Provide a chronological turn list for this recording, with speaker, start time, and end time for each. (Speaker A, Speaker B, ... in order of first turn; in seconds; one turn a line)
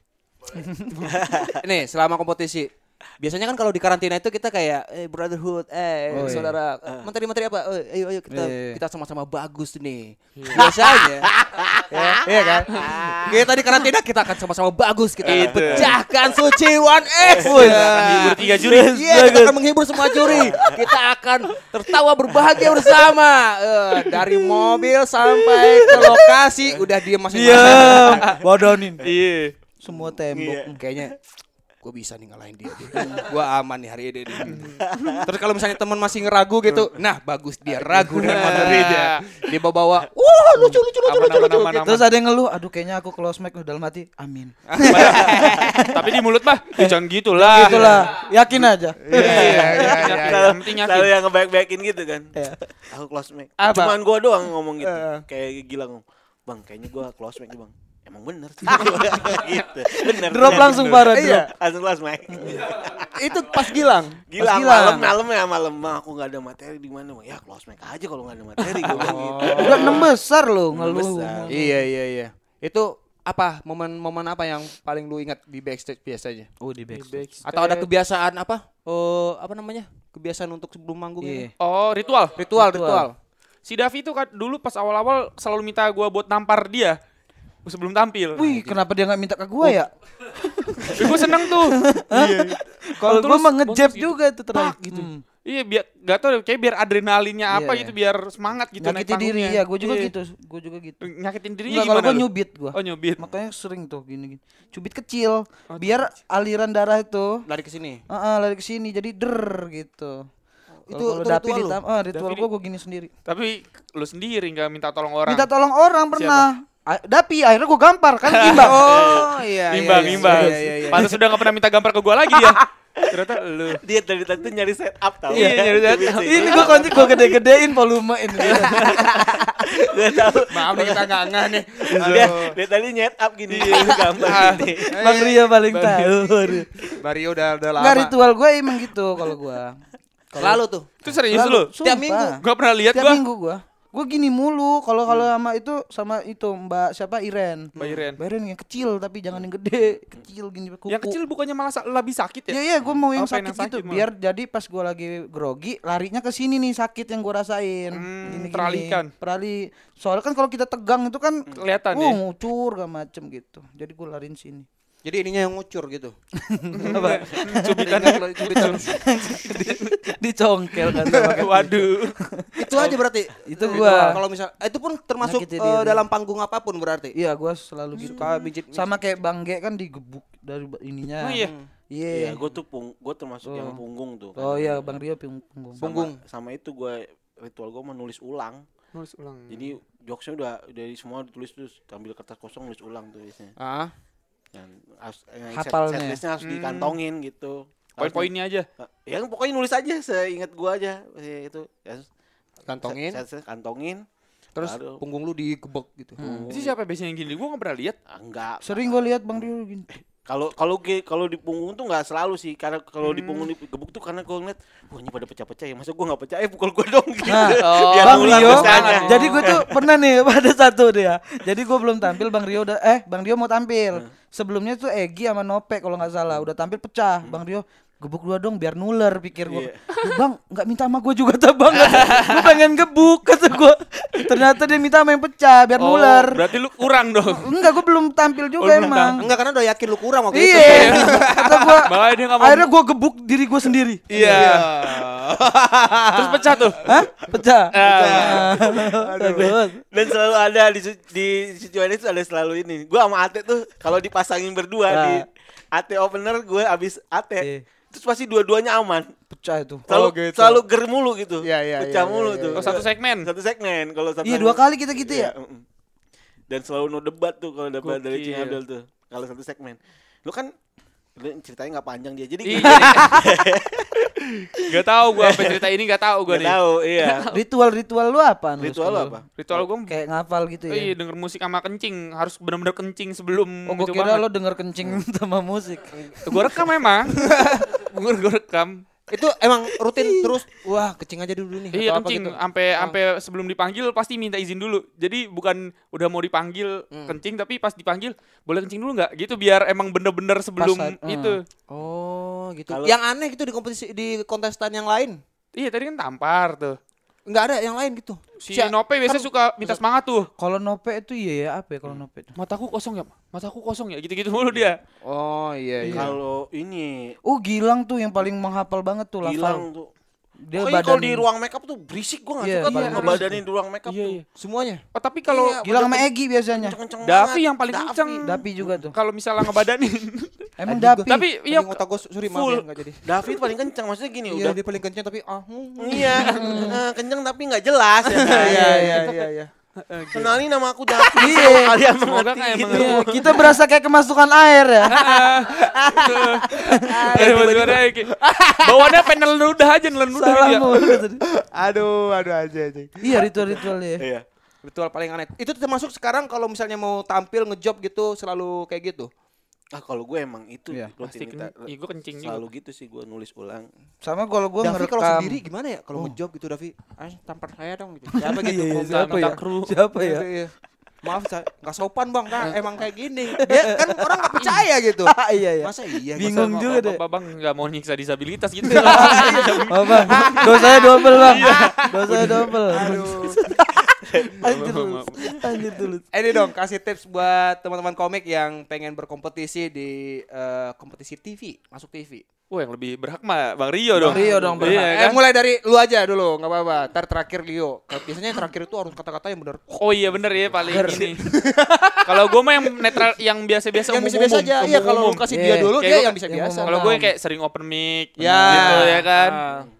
Speaker A: 0.5-0.9
Speaker B: 0.9-1.2
Speaker C: 1.1-1.6
Speaker D: 1.6-11.3
Speaker A: 6.1-6.5
Speaker C: 6.2-7.1
Speaker A: 8.3-8.8
Speaker B: 10.3-10.7
Speaker C: 10.5-13.7
Speaker D: 11.9-28.3
Speaker C: 15.2-16.3
Speaker B: 15.2-15.9
Speaker C: 17.2-17.7
Speaker A: 17.4-18.1
Speaker B: 17.7-19.3
Speaker C: 18.5-19.4
Speaker A: 19.0-19.6
Speaker C: 20.1-20.9
Speaker C: 22.3-23.0
Speaker C: 25.6-26.9
Speaker A: 25.9-26.1
Speaker A: 27.3-29.0
Speaker B: 27.5-28.0
Speaker C: 27.5-28.3
Speaker B: 29.0-29.5
Speaker A: 29.8-30.8
Speaker C: 29.9-31.1
Speaker D: 30.8-31.1
Speaker D: 31.8-34.7
Speaker A: 33.0-33.2
Speaker B: 34.4-35.1
Speaker C: 34.9-35.2
Speaker D: 35.2-41.9
Speaker A: 37.8-38.8
Speaker B: 38.1-39.2
Speaker A: 40.5-40.8
Speaker B: 41.0-42.0
Speaker A: 41.8-46.1
Speaker D: 44.7-45.8
Speaker B: 44.9-48.1
Speaker A: 46.7-49.9
Speaker D: 47.6-48.1
Speaker D: 49.0-50.4
Speaker B: 49.1-51.1
Speaker C: 49.4-52.3
Speaker A: 52.3-52.7
Speaker C: 52.9-63.1
Speaker D: 53.6-54.0
Speaker D: 54.8-55.2
Speaker A: 60.2-61.5
Speaker D: 61.1-61.5
Speaker A: 62.3-62.6
Speaker D: 63.1-64.2
Speaker C: 64.3-70.1
Speaker A: 64.4-65.1
Speaker B: 68.6-69.2
Speaker D: 68.9-70.1
Speaker A: 69.5-71.8
Speaker C: 70.7-71.5
Speaker D: 71.5-76.5
Speaker A: 76.6-77.2
Speaker B: 76.9-77.9
Speaker D: 77.4-81.5
Speaker A: 81.2-81.5
Speaker B: 81.6-82.4
Speaker D: 82.3-83.1
Speaker A: 82.5-83.1
Speaker B: 83.6-87.0
Speaker B: 87.6-88.4
Speaker A: 88.3-89.9
Speaker D: 88.4-88.8
Speaker A: 90.5-95.2
Speaker B: 90.9-91.8
Speaker D: 92.1-93.2
Speaker B: 93.0-100.1
Speaker A: 97.5-97.9
Speaker A: 98.8-101.0
Speaker B: 101.0-103.3
Speaker A: 101.7-107.4
Speaker B: 105.7-106.1
Speaker D: 107.5-108.0
Speaker A: 108.1-110.3
Speaker D: 110.9-111.8
Speaker A: 110.9-113.1
Speaker B: 112.1-112.5
Speaker B: 113.3-115.5
Speaker A: 115.2-119.2
Speaker B: 116.1-116.4
Speaker B: 118.3-123.8
Speaker D: 118.4-121.1
Speaker C: 118.8-119.2
Speaker A: 119.9-121.2
Speaker C: 123.8-127.3
Speaker B: 125.3-126.8
Speaker A: 125.3-129.5
Speaker C: 128.4-131.3
Speaker D: 130.5-132.6
Speaker C: 131.8-135.0
Speaker B: 133.5-134.7
Speaker D: 133.6-135.4
Speaker A: 134.9-136.7
Speaker B: 135.7-136.3
Speaker D: 137.0-138.1
Speaker A: 137.8-139.8
Speaker A: 140.3-142.4
Speaker D: 140.3-140.9
Speaker B: 141.0-141.7
Speaker D: 141.8-142.3
Speaker B: 142.4-143.2
Speaker A: 142.9-151.2
Speaker B: 147.8-148.2
Speaker B: 150.9-152.6
Speaker A: 152.5-164.7
Speaker B: 153.1-154.0
Speaker B: 157.9-159.1
Speaker B: 161.5-162.2
Speaker D: 165.0-166.2
Speaker A: 166.4-172.9
Speaker B: 166.7-168.9
Speaker D: 167.8-168.9
Speaker B: 169.4-169.8
Speaker D: 171.0-171.4
Speaker B: 171.2-172.2
Speaker D: 172.6-177.1
Speaker A: 173.4-174.2
Speaker B: 173.7-174.1
Speaker A: 175.2-176.0
Speaker A: 177.1-182.4
Speaker D: 178.1-178.9
Speaker B: 181.2-181.5
Speaker D: 181.4-181.7
Speaker C: 182.1-184.9
Speaker A: 183.4-183.8
Speaker A: 184.3-185.8
Speaker C: 185.8-188.6
Speaker D: 185.8-186.2
Speaker B: 188.9-189.6
Speaker C: 189.5-193.5
Speaker D: 193.6-193.9
Speaker C: 194.5-202.1
Speaker A: 195.5-196.2
Speaker B: 196.4-197.0
Speaker B: 198.0-198.7
Speaker D: 202.7-203.2
Speaker C: 202.8-204.0
Speaker D: 204.5-206.2
Speaker C: 204.6-205.0
Speaker A: 206.2-206.5
Speaker C: 206.2-206.7
Speaker B: 206.5-207.9
Speaker C: 208.1-209.0
Speaker A: 208.6-209.9
Speaker C: 209.9-219.8
Speaker B: 213.0-213.5
Speaker A: 217.2-236.4
Speaker B: 217.6-219.6
Speaker C: 229.5-229.8
Speaker B: 231.7-232.5
Speaker B: 235.8-237.5
Speaker A: 237.3-239.3
Speaker B: 238.6-239.2
Speaker D: 239.2-241.8
Speaker A: 240.3-244.6
Speaker B: 240.5-242.7
Speaker D: 244.1-246.9
Speaker B: 244.1-244.7
Speaker B: 246.1-246.8
Speaker A: 246.8-249.8
Speaker B: 247.7-248.4
Speaker D: 247.8-249.5
Speaker C: 249.3-259.1
Speaker A: 254.9-255.2
Speaker A: 259.3-259.8
Speaker D: 259.9-260.6
Speaker C: 259.9-265.6
Speaker D: 261.4-262.8
Speaker B: 262.6-263.3
Speaker A: 264.2-265.3
Speaker C: 266.5-270.5
Speaker B: 267.8-268.6
Speaker C: 271.2-274.0
Speaker B: 272.4-273.3
Speaker A: 272.6-273.2
Speaker B: 274.6-277.4
Speaker C: 274.7-275.6
Speaker C: 276.3-277.3
Speaker A: 277.3-279.1
Speaker C: 278.6-279.6
Speaker B: 279.4-279.9
Speaker A: 279.9-280.9
Speaker B: 280.7-284.2
Speaker A: 283.7-286.4
Speaker B: 286.1-288.8
Speaker D: 287.1-287.7
Speaker D: 289.1-293.0
Speaker B: 291.7-301.4
Speaker D: 296.9-297.2
Speaker A: 300.6-301.4
Speaker D: 301.7-305.2
Speaker C: 302.7-303.0
Speaker B: 305.5-306.8
Speaker D: 307.3-309.8
Speaker B: 308.4-310.3
Speaker A: 310.4-312.3
Speaker B: 312.4-314.8
Speaker D: 315.0-316.1
Speaker A: 315.8-316.1
Speaker C: 315.9-317.2
Speaker A: 317.2-319.6
Speaker C: 319.2-319.9
Speaker A: 320.5-321.2
Speaker C: 320.5-324.2
Speaker A: 322.4-323.4
Speaker B: 322.7-323.2
Speaker D: 322.7-323.2
Speaker B: 323.9-324.2
Speaker D: 324.3-324.8
Speaker B: 324.9-325.6
Speaker C: 325.3-328.8
Speaker A: 325.6-326.7
Speaker B: 327.0-328.2
Speaker A: 328.2-328.9
Speaker B: 328.9-330.3
Speaker A: 330.6-331.1
Speaker D: 330.7-333.0
Speaker B: 331.1-332.6
Speaker C: 333.0-334.6
Speaker D: 334.3-336.5
Speaker C: 335.8-338.9
Speaker B: 336.1-336.4
Speaker A: 336.2-336.8
Speaker D: 338.1-339.5
Speaker A: 338.3-339.1
Speaker B: 339.8-340.4
Speaker C: 340.1-343.2
Speaker A: 341.1-341.8
Speaker B: 341.8-343.3
Speaker A: 342.7-345.0
Speaker B: 344.9-350.7
Speaker D: 344.9-346.1
Speaker A: 346.5-347.2
Speaker D: 346.7-349.1
Speaker A: 350.1-351.2
Speaker D: 351.3-353.6
Speaker A: 353.0-354.0
Speaker C: 354.0-354.2
Speaker D: 354.6-359.1
Speaker C: 359.7-361.7
Speaker B: 361.0-362.5
Speaker C: 362.2-363.7
Speaker A: 364.0-365.4
Speaker D: 364.6-369.4
Speaker A: 368.2-370.3
Speaker B: 368.9-369.7
Speaker D: 369.9-376.7
Speaker A: 373.4-374.5
Speaker A: 375.1-377.0
Speaker B: 376.2-383.4
Speaker D: 378.7-383.4
Speaker A: 378.7-386.1
Speaker C: 383.9-384.6
Speaker B: 384.4-385.3
Speaker D: 386.1-392.2
Speaker B: 392.5-395.2
Speaker D: 393.9-399.8
Speaker A: 394.0-394.9
Speaker B: 399.8-401.4
Speaker D: 400.6-402.3
Speaker A: 400.7-401.1
Speaker B: 402.0-405.2
Speaker D: 403.9-407.0
Speaker A: 405.3-407.1
Speaker B: 405.8-409.4
Speaker A: 408.2-409.0
Speaker D: 408.2-409.7